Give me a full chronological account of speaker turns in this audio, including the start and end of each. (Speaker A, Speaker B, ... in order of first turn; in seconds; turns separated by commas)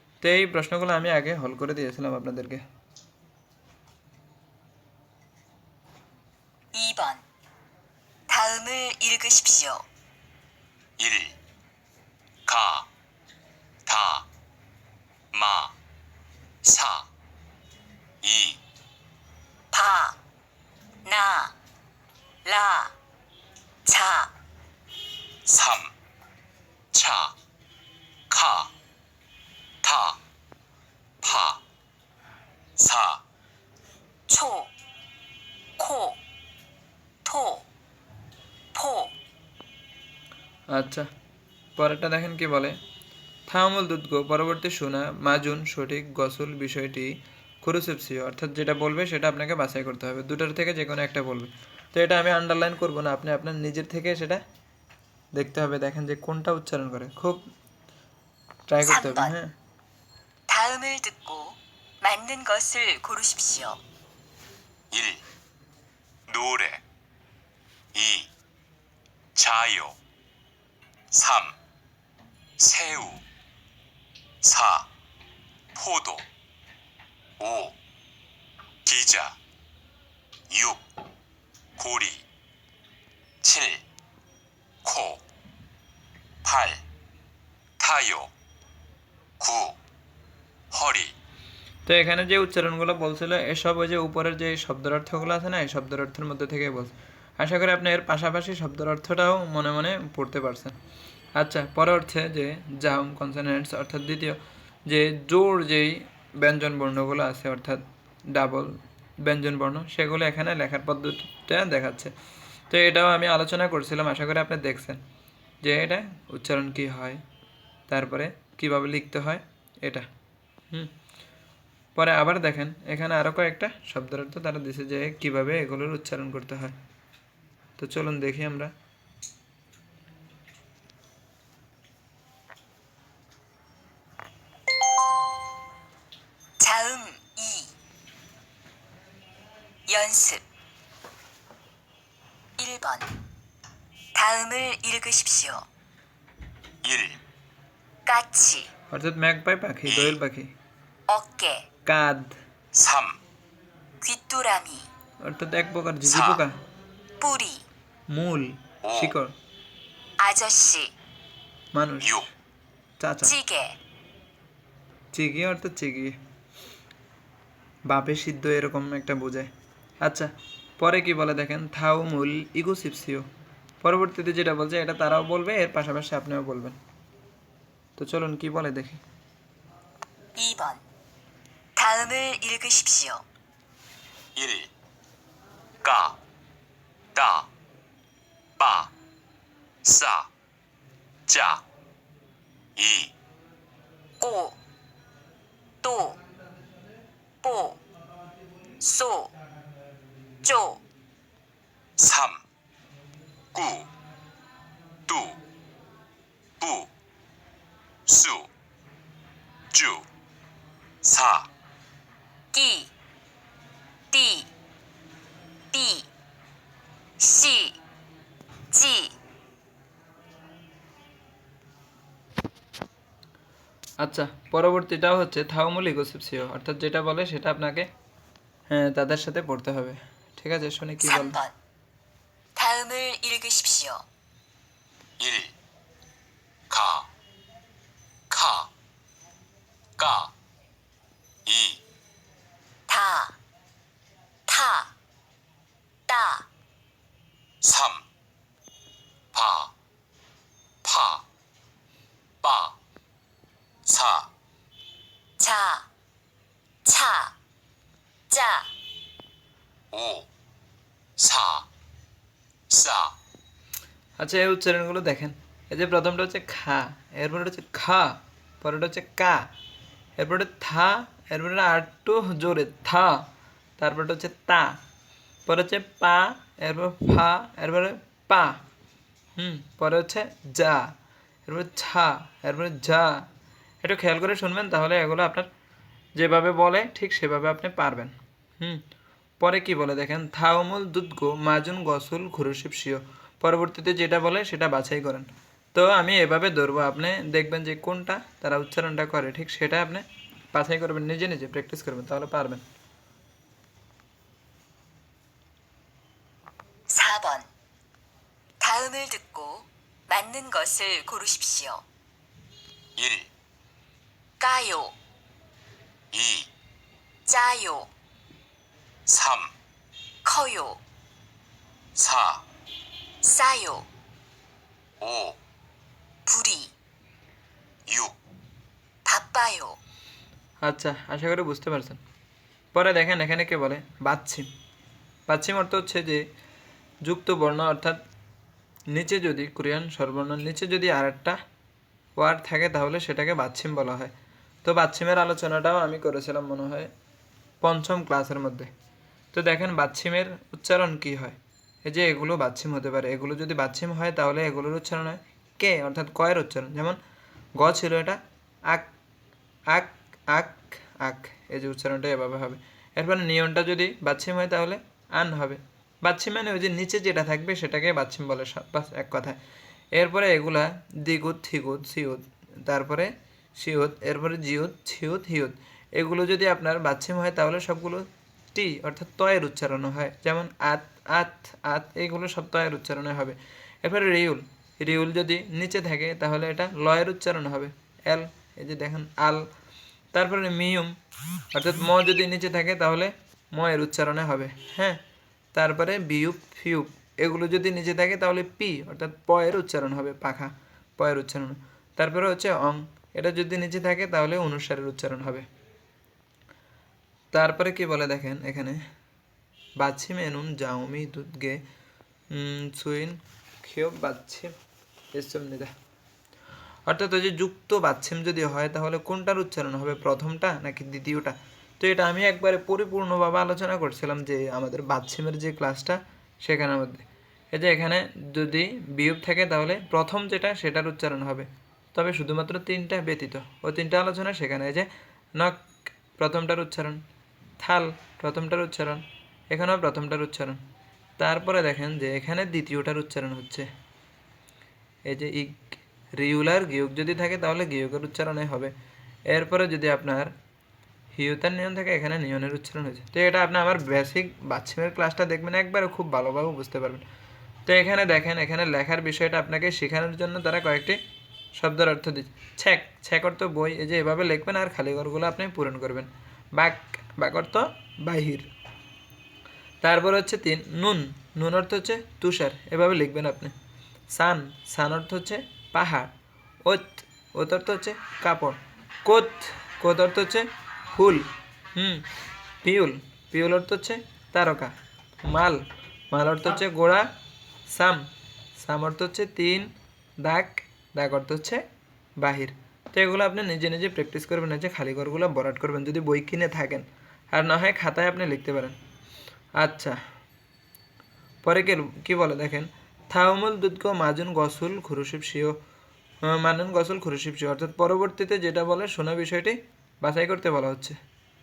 Speaker A: 0.2-2.6, Speaker B: 6.7-7.2, Speaker B: 8.3-9.8, Speaker C: 11.0-11.3, Speaker C: 12.5-12.9, Speaker C: 13.9-14.2, Speaker C: 15.3-15.7, Speaker C: 16.6-17.1, Speaker C: 18.2-18.6, Speaker B: 19.7-20.2, Speaker B: 21.1-21.5, Speaker B: 22.4-22.9, Speaker B: 23.9-24.3, Speaker C: 25.5-25.9, Speaker C: 26.9-27.3, Speaker C: 28.3-28.7, Speaker C: 29.8-30.2, Speaker C: 31.2-31.6, Speaker C: 32.8-33.2, Speaker B: 34.3-34.7, Speaker B: 35.8-36.2, Speaker B: 37.2-37.6, Speaker B: 38.7-39.1, Speaker A: 40.7-41.1, Speaker A: 41.8-42.8, Speaker A: 43.5-54.4, Speaker A: 55.4-57.5, Speaker A: 58.7-59.5, Speaker B: 58.8-59.3, Speaker B: 60.5-63.8, Speaker C: 64.9-65.2, Speaker C: 66.3-66.8, Speaker C: 67.9-68.3, Speaker C: 69.4-70.0, Speaker C: 71.1-71.5, Speaker C: 72.6-73.2, Speaker C: 74.4-74.9, Speaker C: 75.8-76.2, Speaker C: 77.4-77.8, Speaker C: 78.8-79.3, Speaker C: 80.5-80.8, Speaker C: 81.8-82.2, Speaker C: 83.4-83.8, Speaker C: 84.8-85.2, Speaker C: 86.4-86.8, Speaker C: 87.8-88.3, Speaker C: 89.4-89.8, Speaker C: 90.7-91.1, Speaker A: 91.9-100.8, Speaker A: 101.4-107.8, Speaker A: 108.3-112.1, Speaker A: 112.7-115.0, Speaker A: 115.6-117.2, Speaker A: 117.9-120.1, Speaker A: 122.0-126.8, Speaker A: 127.8-128.7, Speaker B: 136.6-137.7, Speaker B: 139.9-140.4, Speaker B: 142.6-143.1, Speaker B: 144.2-145.7, Speaker C: 146.8-147.2, Speaker B: 148.1-148.7, Speaker A: 148.9-150.5, Speaker C: 149.9-150.2, Speaker B: 151.1-151.6, Speaker A: 151.9-152.4, Speaker C: 152.7-153.2, Speaker B: 154.0-154.9, Speaker A: 155.2-156.6, Speaker C: 156.0-156.4, Speaker B: 157.2-157.7, Speaker A: 158.1-159.3, Speaker C: 158.8-159.2, Speaker B: 160.2-160.9, Speaker A: 161.7-162.3, Speaker C: 162.0-162.3, Speaker A: 163.0-163.3, Speaker B: 163.2-163.7, Speaker A: 165.1-166.2, Speaker A: 167.9-169.5, Speaker A: 170.8-173.3, Speaker A: 173.8-176.8, Speaker A: 178.0-179.0, Speaker B: 180.4-180.8, Speaker B: 181.8-183.2, Speaker C: 184.4-184.7, Speaker C: 185.8-186.2, Speaker C: 187.2-187.5, Speaker C: 188.6-188.9, Speaker C: 189.8-190.3, Speaker C: 191.3-191.6, Speaker C: 192.8-193.1, Speaker B: 194.2-194.6, Speaker B: 195.8-196.2, Speaker B: 197.4-197.8, Speaker B: 198.8-199.3, Speaker B: 200.4-200.8, Speaker C: 202.0-202.4, Speaker C: 203.5-203.9, Speaker C: 205.1-205.4, Speaker C: 206.6-206.9, Speaker C: 208.1-208.5, Speaker C: 209.7-210.1, Speaker C: 211.0-211.5, Speaker B: 212.5-212.9, Speaker B: 214.1-214.5, Speaker B: 215.7-216.1, Speaker B: 217.2-217.8, Speaker B: 218.7-219.1, Speaker A: 224.0-227.9, Speaker A: 228.7-231.4, Speaker B: 231.0-231.5, Speaker B: 232.6-234.0, Speaker C: 235.2-235.5, Speaker C: 236.7-237.1, Speaker C: 238.3-238.7, Speaker C: 240.0-240.3, Speaker C: 241.5-241.8, Speaker B: 242.9-243.4, Speaker B: 244.5-244.9, Speaker B: 246.1-246.5, Speaker C: 247.6-248.0, Speaker C: 249.3-249.7, Speaker C: 250.8-251.2, Speaker C: 252.4-252.8, Speaker C: 253.9-254.3, Speaker B: 255.4-255.9, Speaker B: 256.9-257.3, Speaker B: 258.3-258.7, Speaker C: 259.9-260.3, Speaker C: 261.2-261.7, Speaker C: 262.7-263.1, Speaker A: 264.2-269.4, Speaker A: 270.2-273.2, Speaker A: 273.8-274.8, Speaker A: 275.5-278.6, Speaker A: 279.4-280.9, Speaker A: 281.5-283.2, Speaker A: 283.8-285.5, Speaker A: 286.2-288.8, Speaker A: 289.4-302.6, Speaker B: 306.9-307.5, Speaker B: 308.6-311.8, Speaker C: 313.0-313.3, Speaker B: 314.4-314.9, Speaker C: 316.1-316.5, Speaker B: 317.3-317.9, Speaker C: 319.1-319.5, Speaker B: 320.2-320.8, Speaker C: 322.0-322.4, Speaker B: 323.2-323.9, Speaker C: 325.0-325.4, Speaker B: 326.3-326.7, Speaker C: 327.9-328.2, Speaker B: 329.1-329.8, Speaker A: 330.6-332.0, Speaker A: 332.7-334.5, Speaker A: 335.3-336.2, Speaker A: 337.1-338.0, Speaker A: 338.9-341.4, Speaker A: 342.2-344.1, Speaker A: 344.6-346.9, Speaker A: 347.6-348.7, Speaker A: 349.3-357.0, Speaker A: 357.6-358.9, Speaker A: 359.7-369.4, Speaker A: 370.0-389.4, Speaker A: 390.1-390.9, Speaker A: 391.5-395.0, Speaker A: 395.5-405.5, Speaker A: 407.3-408.8, Speaker A: 409.8-411.6, Speaker A: 412.3-414.5, Speaker A: 415.1-415.7, Speaker A: 416.9-435.6, Speaker A: 436.2-437.0, Speaker A: 437.6-440.6, Speaker A: 441.2-443.7, Speaker A: 445.1-448.7, Speaker A: 449.3-450.3, Speaker A: 451.1-457.1, Speaker A: 457.7-461.0, Speaker A: 461.6-468.5, Speaker A: 469.8-473.5, Speaker A: 474.1-476.1, Speaker A: 476.6-481.2, Speaker A: 481.8-482.1, Speaker A: 482.6-484.7, Speaker A: 485.2-487.1, Speaker A: 487.7-488.0, Speaker A: 488.6-489.7, Speaker A: 490.2-491.6, Speaker A: 492.2-498.8, Speaker A: 499.6-500.0, Speaker A: 501.4-505.5, Speaker A: 506.2-511.0